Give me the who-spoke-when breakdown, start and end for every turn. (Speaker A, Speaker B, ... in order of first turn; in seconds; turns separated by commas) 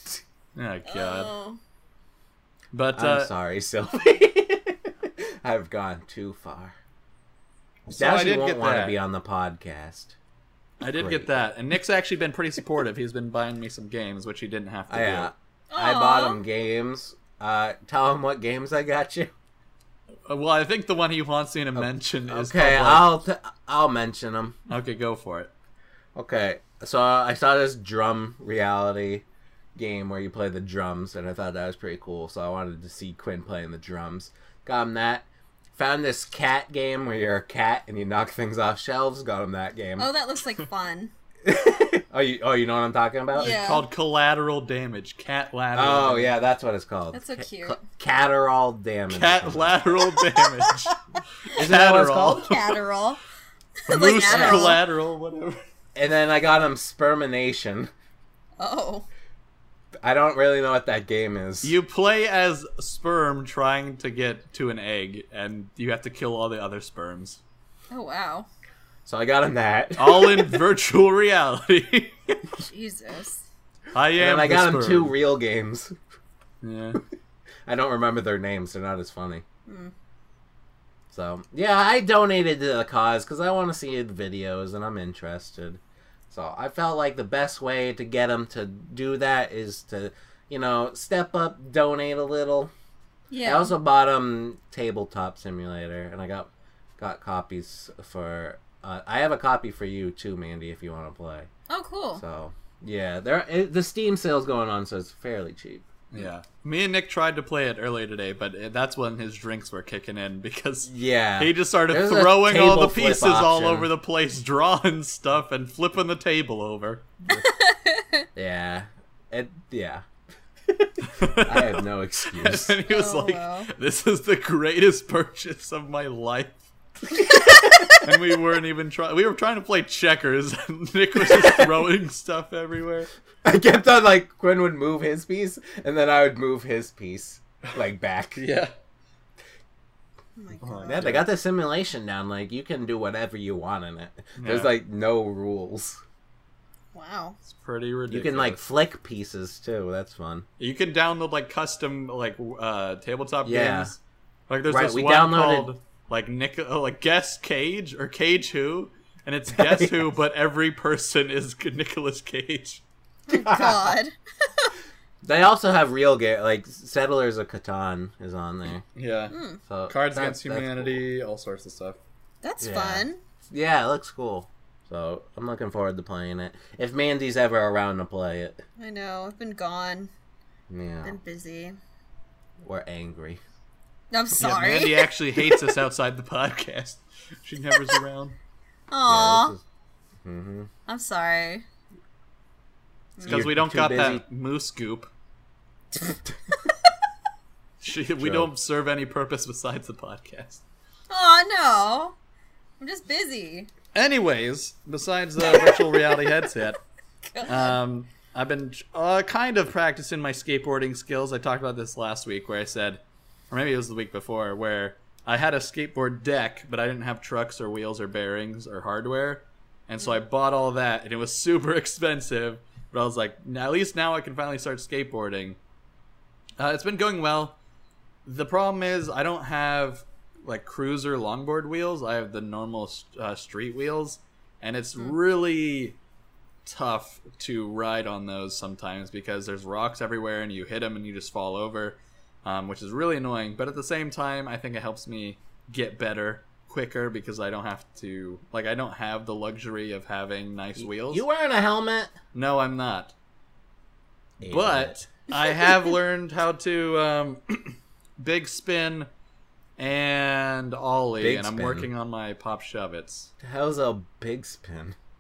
Speaker A: 0.5-1.3, Speaker B: 0.8-1.6, Speaker A: 2.7-3.3, Speaker C: 2.9-6.8, Speaker A: 7.9-9.0, Speaker C: 7.9-10.2, Speaker A: 10.8-15.3, Speaker C: 10.8-11.3, Speaker C: 14.9-19.3, Speaker B: 15.7-16.4, Speaker A: 20.2-23.2, Speaker C: 21.8-24.6, Speaker A: 24.7-25.5, Speaker C: 26.1-29.2, Speaker C: 29.8-40.1, Speaker B: 40.0-41.1, Speaker C: 41.4-43.6, Speaker B: 43.3-43.8, Speaker A: 43.4-46.3, Speaker C: 45.7-49.8, Speaker B: 47.1-47.8, Speaker A: 49.1-50.9, Speaker B: 50.1-50.9, Speaker A: 51.5-52.7, Speaker C: 51.5-52.5, Speaker B: 52.4-53.2, Speaker B: 53.8-54.8, Speaker A: 53.9-55.6, Speaker C: 54.2-54.7, Speaker C: 55.9-57.9, Speaker B: 58.6-59.1, Speaker C: 60.0-61.7, Speaker A: 61.6-67.4, Speaker B: 67.9-68.5, Speaker C: 69.0-70.6, Speaker A: 70.0-72.1, Speaker B: 72.6-73.4, Speaker A: 73.9-75.1, Speaker C: 74.2-75.9, Speaker A: 76.6-77.0, Speaker C: 77.7-79.4, Speaker B: 79.7-79.9, Speaker C: 81.1-92.7, Speaker B: 93.3-93.7, Speaker C: 93.4-101.5, Speaker B: 101.7-102.2, Speaker C: 102.2-106.2, Speaker A: 106.1-117.0, Speaker C: 110.8-113.9, Speaker B: 117.3-118.2, Speaker C: 118.3-120.0, Speaker C: 120.7-122.8, Speaker A: 121.0-126.6, Speaker B: 122.8-123.7, Speaker B: 127.5-128.0, Speaker A: 127.9-133.1, Speaker C: 131.3-131.6, Speaker C: 133.4-138.4, Speaker A: 138.3-138.7, Speaker B: 140.4-141.1, Speaker A: 140.6-141.3, Speaker C: 140.9-146.0, Speaker A: 144.4-144.7, Speaker B: 146.9-147.4, Speaker A: 147.5-148.6, Speaker C: 148.1-150.4, Speaker A: 150.6-162.8, Speaker C: 153.4-153.9, Speaker C: 154.7-155.7, Speaker C: 159.5-160.1, Speaker B: 163.3-164.7, Speaker C: 163.3-163.9, Speaker C: 165.2-168.8, Speaker A: 168.9-169.3, Speaker B: 169.3-169.6, Speaker C: 169.7-171.0, Speaker A: 169.9-172.0, Speaker B: 172.4-173.2, Speaker C: 172.6-178.6, Speaker B: 178.8-180.1, Speaker C: 180.7-181.2, Speaker B: 181.0-181.8, Speaker C: 182.6-183.4, Speaker B: 184.1-185.6, Speaker A: 184.3-188.4, Speaker B: 188.9-189.5, Speaker C: 189.1-189.6, Speaker C: 190.2-190.7, Speaker B: 190.8-191.6, Speaker B: 193.2-193.4, Speaker A: 193.2-195.1, Speaker C: 193.2-194.2, Speaker A: 197.8-200.6, Speaker C: 198.2-198.5, Speaker B: 201.1-202.2, Speaker B: 202.8-203.7, Speaker A: 203.9-206.8, Speaker B: 207.3-207.8, Speaker A: 207.4-225.6, Speaker A: 226.6-227.6, Speaker A: 228.2-235.9, Speaker A: 236.7-251.2, Speaker C: 250.8-252.1, Speaker A: 252.3-253.1, Speaker C: 254.4-254.9, Speaker A: 254.5-259.1, Speaker A: 259.8-263.3, Speaker C: 261.2-261.9, Speaker C: 263.4-264.9